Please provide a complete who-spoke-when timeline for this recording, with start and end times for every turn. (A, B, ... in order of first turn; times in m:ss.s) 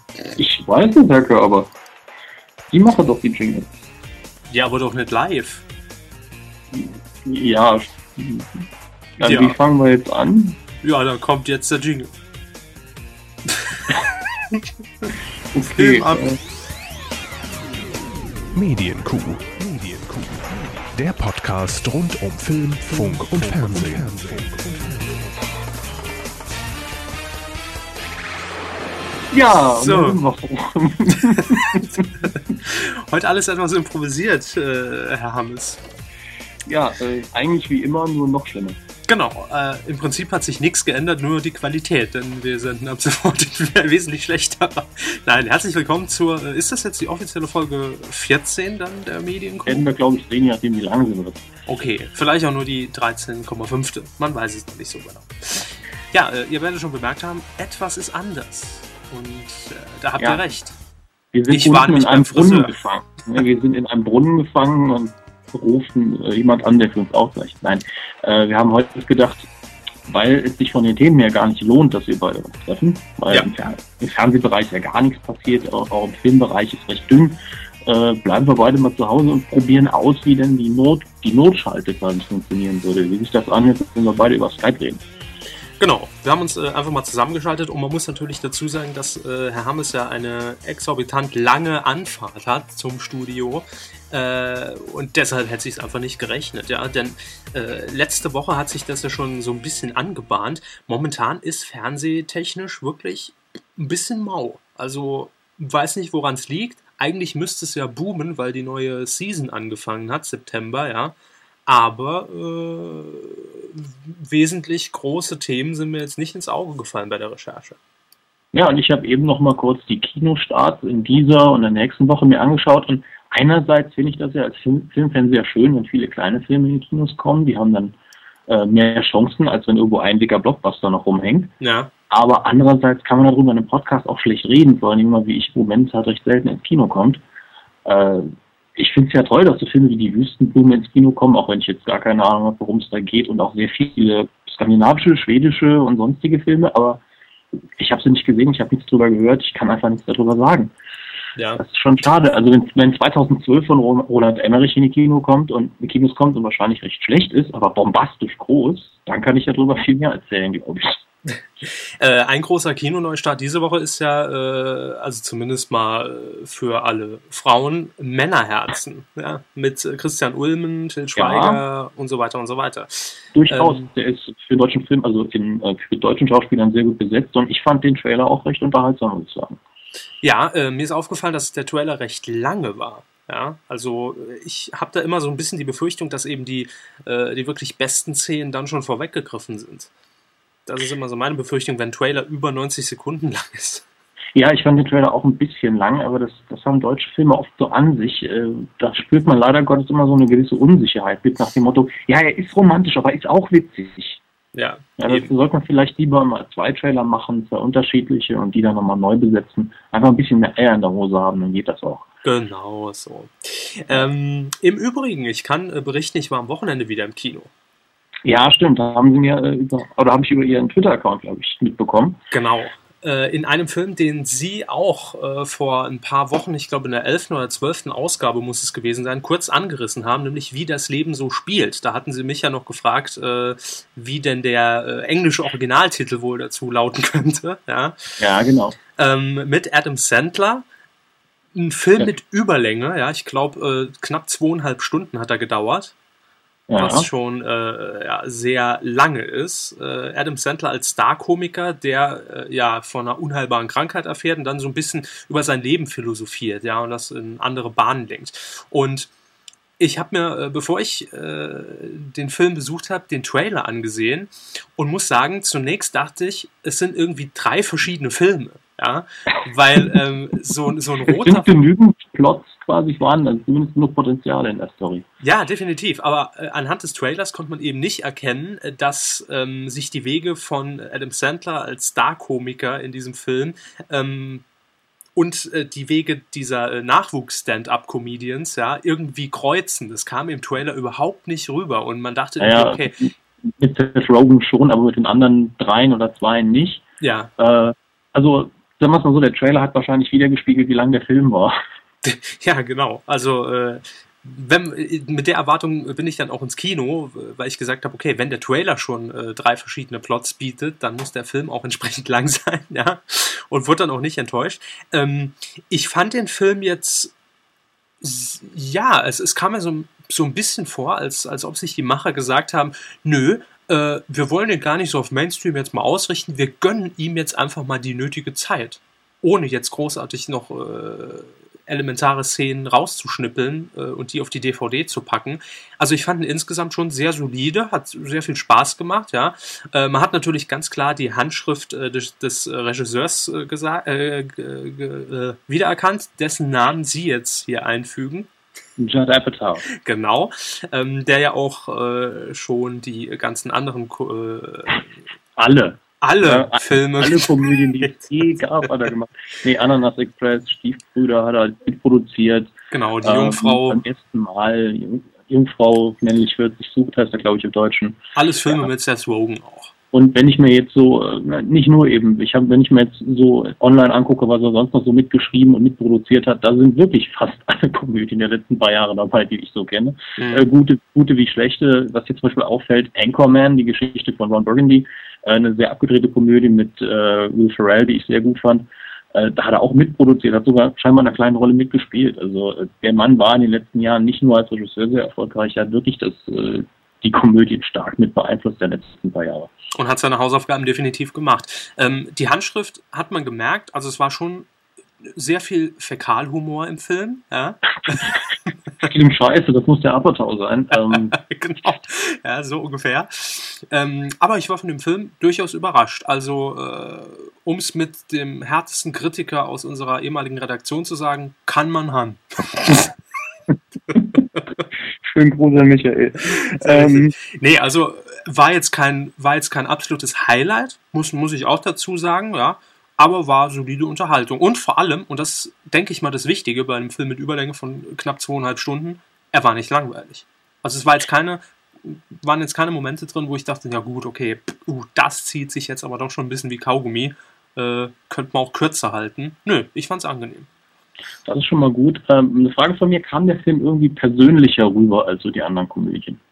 0:00.3-0:01.7 A
0:02.7-0:03.7 A
0:04.5-0:05.6 B
0:06.7-0:08.7 A
0:09.2-0:10.6 A
0:09.2-0:09.6 B
0:10.8-0:12.1 B
0:14.5-0:15.1 B
0:15.5-0:16.4 A
0:15.6-0:16.3 B
0:18.5-0:25.2 C
0:29.3-0:32.0 A
0:29.8-0:30.2 B
0:31.2-0:35.8 B
0:36.7-0:38.8 A
0:39.1-0:49.8 B
0:49.6-0:51.4 A
0:51.7-1:00.8 B
1:01.3-1:09.5 A
1:01.5-1:02.7 B
1:10.0-1:25.0 A
1:25.8-1:51.2 B
1:51.7-1:57.8 B
1:58.5-2:08.0 A
2:08.5-2:11.5 A
2:11.6-2:11.9 B
2:12.1-2:17.2 A
2:17.8-2:27.0 A
2:27.8-2:30.7 A
2:31.4-2:31.6 B
2:31.6-2:41.0 A
2:41.3-2:53.8 B
2:51.2-2:51.6 A
2:53.3-2:59.6 A
3:00.2-3:09.9 B
3:10.6-3:13.8 B
3:14.3-3:24.2 A
3:24.5-3:25.3 B
3:25.0-3:32.0 A
3:32.2-3:37.5 B
3:38.2-3:42.2 A
3:42.3-3:58.2 B
3:58.2-3:58.8 A
3:59.0-4:00.6 B
4:01.5-4:05.9 B
4:06.7-4:07.1 A
4:06.8-4:19.1 B
4:19.8-4:31.6 B
4:31.1-4:35.0 A
4:35.2-4:44.4 B
4:45.2-4:53.0 B
4:52.4-4:56.8 A
4:57.0-4:57.3 B
4:57.4-5:01.6 A
5:02.0-5:17.1 B
5:18.0-5:48.3 B
5:48.8-5:49.6 A
5:49.7-5:54.9 B
5:55.4-6:08.6 A
5:56.0-5:58.1 B
6:02.7-6:03.8 B
6:08.1-6:09.7 B
6:09.9-6:39.5 A
6:20.2-6:20.5 B
6:39.7-6:44.5 B
6:45.0-6:48.2 B
6:48.8-6:51.2 A
6:50.7-7:02.9 B
7:03.5-7:04.2 A
7:03.9-7:04.4 B
7:05.0-7:07.1 A
7:06.3-7:30.5 B
7:31.2-7:36.2 A